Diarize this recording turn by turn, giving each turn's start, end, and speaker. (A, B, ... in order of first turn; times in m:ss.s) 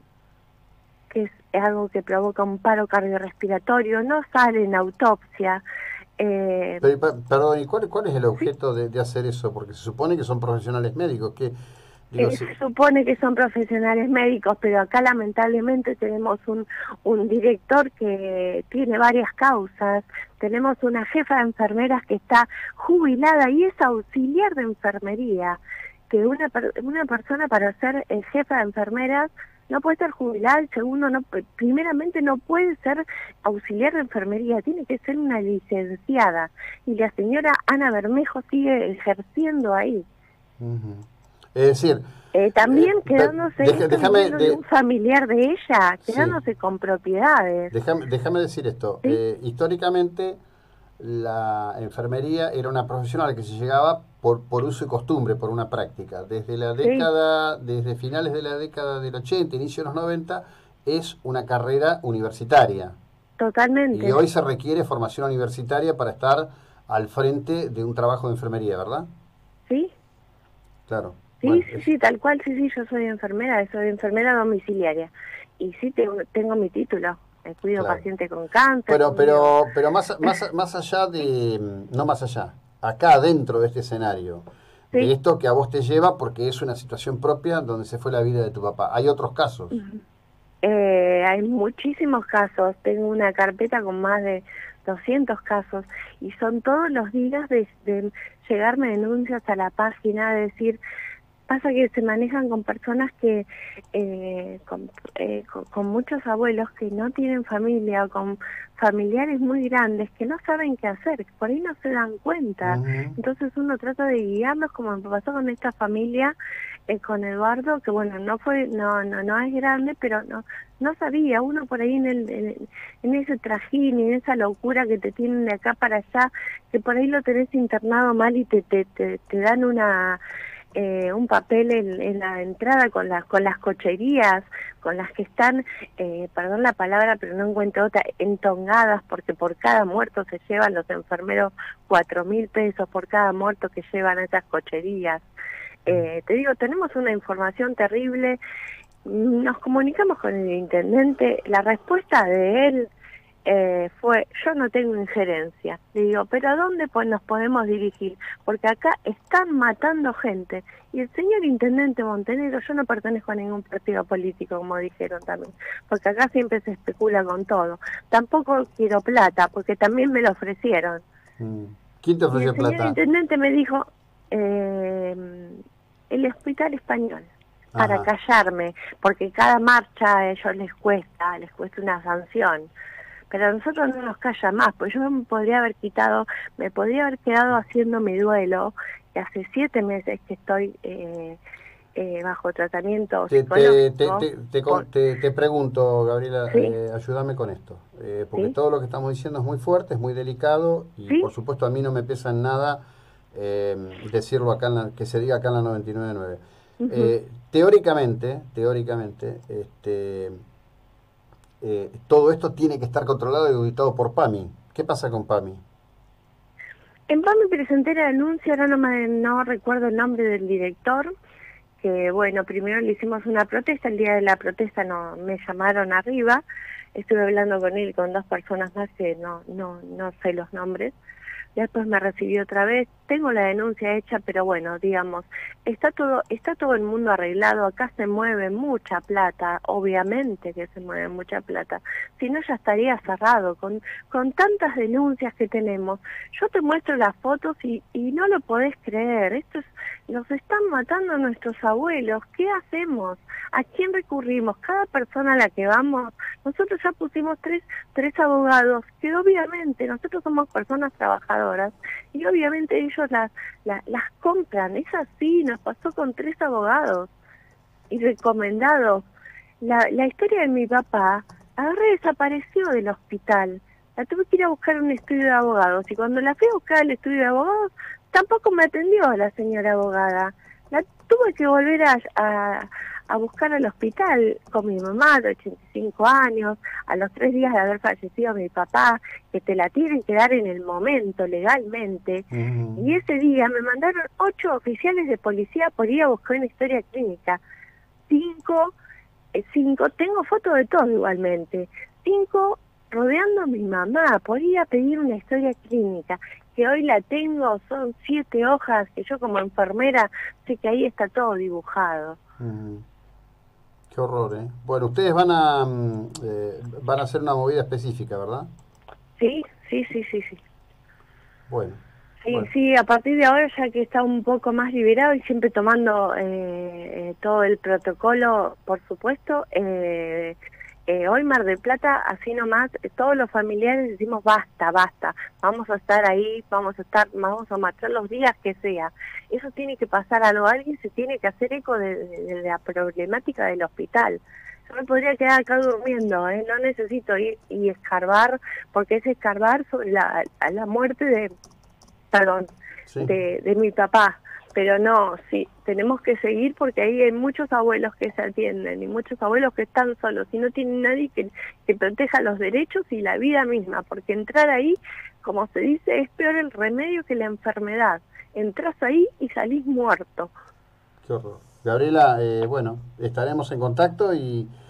0:01.1-0:05.6 A
0:06.2-0:06.8 A
0:06.8-0:11.5 B
0:12.1-0:12.5 B
0:12.2-0:40.0 A
0:40.6-0:42.0 B
0:42.3-0:47.7 A
0:42.7-0:44.6 B
0:46.0-0:46.4 B
0:47.7-0:50.4 B
0:51.0-1:03.0 B
0:56.8-0:57.1 A
1:03.4-1:04.2 A
1:03.9-1:09.1 B
1:10.9-1:11.8 B
1:11.4-1:19.5 A
1:17.8-1:18.0 B
1:18.9-1:29.8 B
1:29.7-1:30.0 A
1:30.6-1:40.8 A
1:41.5-1:56.3 A
1:52.6-1:53.2 B
1:56.9-2:10.2 A
2:10.7-2:25.2 A
2:25.8-2:28.4 A
2:29.0-2:32.9 A
2:33.4-2:51.0 A
2:51.4-2:53.0 B
2:52.3-3:02.7 A
2:57.7-2:58.1 B
3:03.3-3:11.4 A
3:12.0-3:14.8 A
3:13.3-3:30.4 B
3:26.8-3:27.1 A
3:31.6-3:35.6 B
3:37.1-3:41.1 A
3:41.8-3:46.4 A
3:46.9-3:50.9 A
3:51.5-4:27.1 A
4:27.9-4:29.0 A
4:29.6-4:57.4 A
4:52.3-4:52.9 B
4:58.1-4:58.7 A
4:59.3-5:12.2 A
5:12.4-5:12.8 B
5:13.9-5:18.5 B
5:19.2-5:20.4 A
5:21.5-5:22.5 B
5:22.2-5:51.3 A
5:52.1-5:52.5 A
5:53.0-6:10.3 A
6:11.0-6:14.5 B